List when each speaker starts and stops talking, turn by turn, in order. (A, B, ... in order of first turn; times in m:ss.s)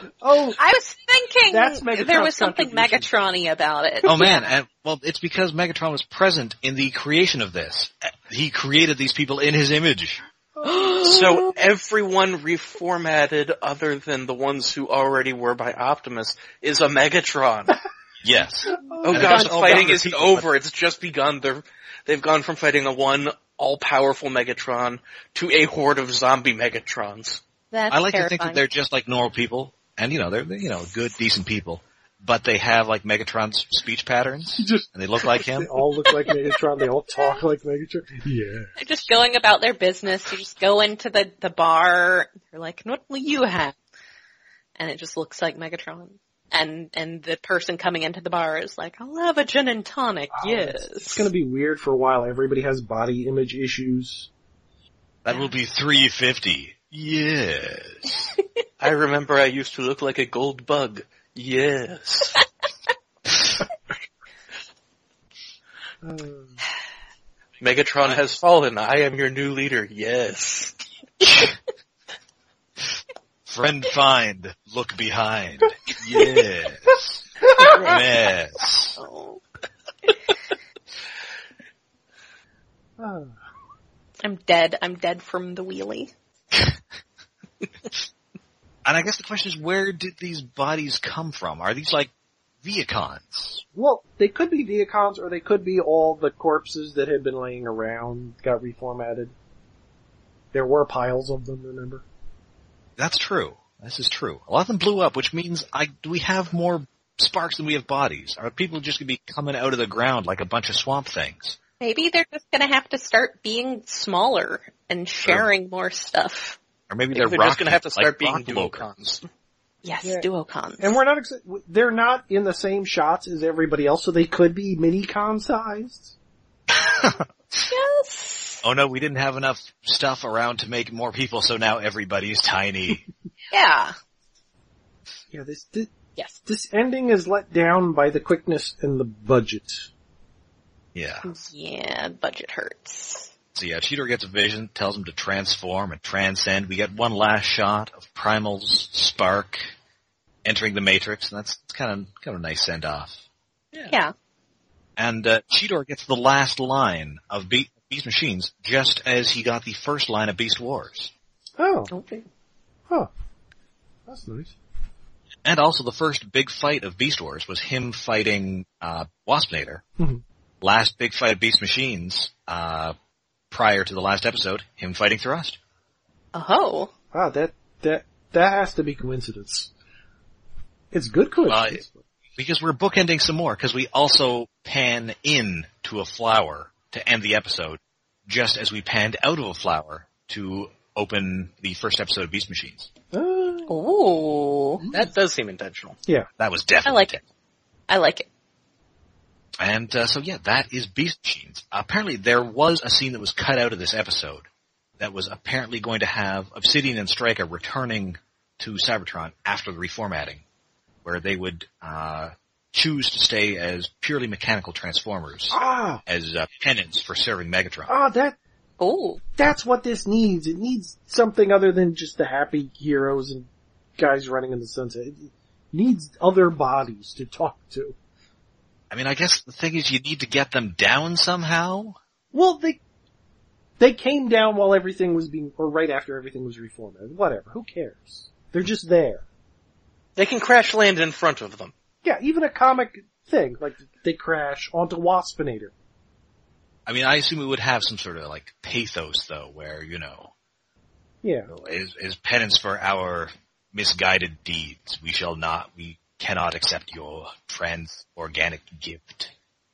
0:00.2-0:00.6 A
0:00.6-0:04.5 B
0:01.5-0:03.1 A
0:04.0-0:10.2 C
0:10.6-0:11.0 A
0:10.7-0:11.5 B
0:11.0-0:17.8 D
0:18.2-0:20.5 C
0:18.9-0:19.8 A
0:19.1-0:27.4 D
0:27.7-0:28.6 B
0:27.9-0:35.8 C
0:34.5-0:38.8 A
0:38.8-0:43.8 B
0:44.8-0:51.3 B
0:50.4-0:54.3 A
0:55.2-0:58.3 C
0:58.8-1:02.4 D
1:06.0-1:06.6 A
1:07.6-1:10.8 D
1:13.5-1:19.0 C
1:17.6-1:18.0 B
1:19.0-1:19.4 B
1:23.0-1:23.4 A
1:24.2-1:26.1 B
1:28.8-1:32.1 C
1:32.6-1:33.6 C
1:33.7-1:39.3 A
1:40.5-1:42.0 A
1:43.0-1:51.6 C
1:51.8-1:56.6 B
1:55.2-1:55.5 C
1:56.9-1:58.9 C
1:57.1-1:59.2 D
1:59.8-2:01.0 B
2:00.8-2:06.1 A
2:06.7-2:07.7 C
2:07.7-2:08.6 B
2:08.6-2:13.0 C
2:13.5-2:14.0 B
2:15.3-2:15.9 A
2:16.4-2:19.9 A
2:21.0-2:21.3 C
2:21.2-2:23.3 B
2:23.6-2:29.7 C
2:30.4-2:33.2 C
2:35.0-2:41.1 C
2:41.6-2:41.9 A
2:41.9-2:42.3 B
2:44.1-2:44.5 A
2:45.4-2:49.8 C
2:50.0-2:50.2 A
2:50.6-2:53.0 C
2:53.5-2:55.6 C
2:56.3-2:56.9 B
2:57.1-2:59.7 A
3:00.9-3:02.0 A
3:01.5-3:01.8 C
3:02.4-3:12.9 C
3:13.1-3:13.8 A
3:13.7-3:14.8 B
3:14.8-3:15.1 A
3:14.9-3:16.0 D
3:16.4-3:17.2 C
3:16.8-3:17.2 B
3:17.9-3:18.3 B
3:19.6-3:24.5 C
3:25.0-3:30.4 C
3:31.0-3:37.9 C
3:35.5-3:36.0 A
3:37.9-3:38.4 A
3:38.8-3:39.2 B
3:39.4-3:48.0 A
3:48.9-3:52.0 C
3:52.3-3:52.8 A
3:53.8-3:59.2 A
4:00.2-4:01.7 D
4:02.0-4:05.7 A
4:06.9-4:10.3 C
4:11.2-4:11.5 A
4:11.5-4:19.3 C